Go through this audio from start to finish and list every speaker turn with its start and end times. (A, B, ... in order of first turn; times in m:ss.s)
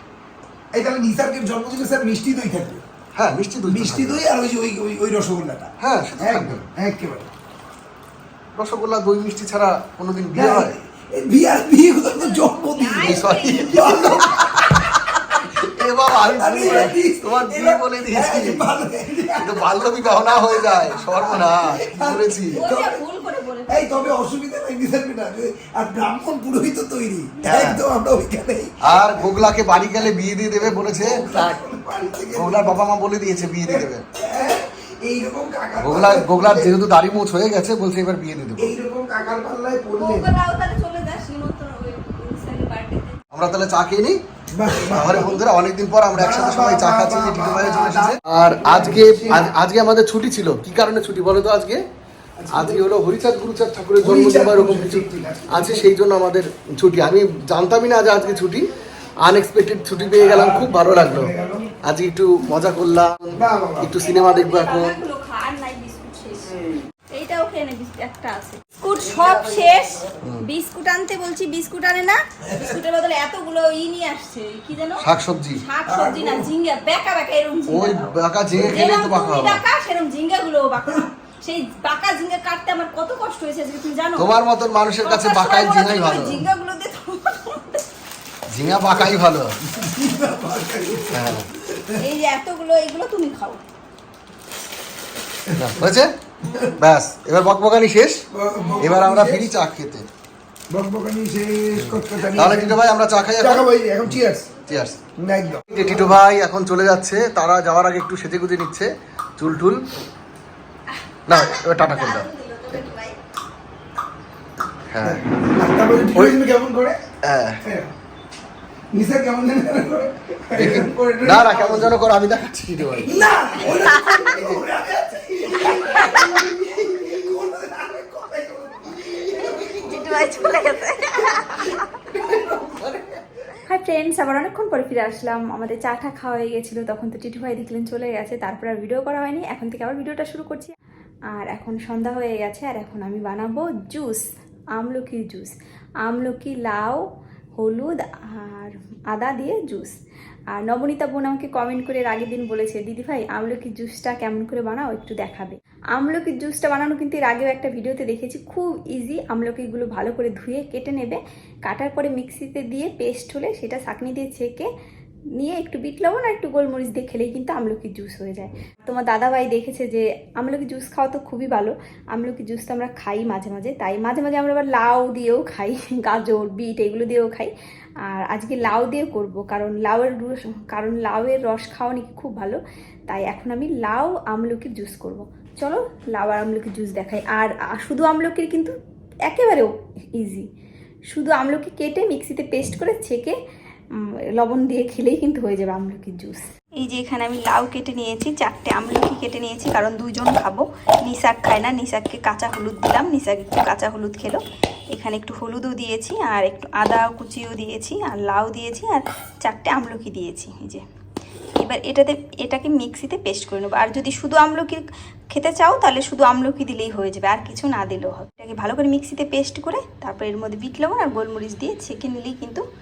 0:00.7-0:02.8 A
0:03.2-0:04.2 B
0:03.6-0:07.3 A
0:05.8-0:06.6 B
0:08.6-0:10.7 B
0:10.3-0:14.7 A
0:12.0-0:15.0 C
0:13.0-0:18.6 B
0:16.1-0:23.1 A
0:19.4-0:22.6 B
0:22.6-0:24.1 C
0:23.7-0:29.7 A
0:27.4-0:27.8 B
0:28.8-0:31.2 B
0:30.7-0:32.8 A
0:32.3-0:34.0 B
0:33.6-0:36.7 A
0:35.8-0:38.7 B
0:38.6-0:40.3 A
0:40.0-0:43.2 C
0:43.3-0:44.2 B
0:44.5-0:45.4 A
0:44.8-0:51.8 B
0:46.1-0:49.5 A
0:52.4-0:52.8 A
0:52.5-0:58.7 B
0:54.0-0:55.9 A
0:59.2-1:01.3 B
1:00.2-1:01.7 A
1:01.8-1:05.0 B
1:03.3-1:04.0 A
1:04.0-1:06.5 C
1:07.1-1:15.0 C
1:12.4-1:12.8 A
1:15.0-1:15.6 B
1:15.6-1:24.3 C
1:15.8-1:16.5 A
1:17.7-1:19.6 B
1:18.5-1:18.8 A
1:24.2-1:26.4 B
1:25.0-1:27.8 C
1:28.5-1:29.5 B
1:28.8-1:32.0 A
1:31.1-1:31.5 B
1:32.0-1:33.6 C
1:35.5-1:35.9 A
1:35.6-1:36.1 B
1:36.4-1:36.8 C
1:36.8-1:38.2 B
1:38.3-1:39.5 A
1:38.6-1:39.0 C
1:38.8-1:40.0 B
1:40.7-1:42.8 A
1:41.8-1:45.0 B
1:42.1-1:42.6 C
1:43.4-1:44.5 A
1:45.2-1:46.1 A
1:45.7-1:49.8 B
1:50.9-1:53.2 C
1:51.3-1:52.3 B
1:54.9-1:55.2 B
1:55.0-1:57.0 A
1:57.2-1:57.6 B
1:57.6-1:57.9 A
1:58.9-2:02.0 A
2:00.6-2:04.6 B
2:03.0-2:10.3 A
2:03.6-2:04.4 C
2:05.5-2:06.4 C
2:09.4-2:09.7 B
2:09.6-2:12.0 C
2:12.1-2:13.2 B
2:12.2-2:12.5 A
2:13.6-2:20.7 C
2:21.3-2:24.2 C
2:24.8-2:25.5 C
2:26.0-2:27.0 C
2:27.6-2:29.9 C
2:30.5-2:44.7 C
2:45.4-2:57.5 C
2:58.1-3:08.7 C
3:09.3-3:10.5 C
3:11.1-3:13.4 C
3:14.4-3:24.4 C
3:24.9-3:30.8 C
3:31.6-3:42.6 C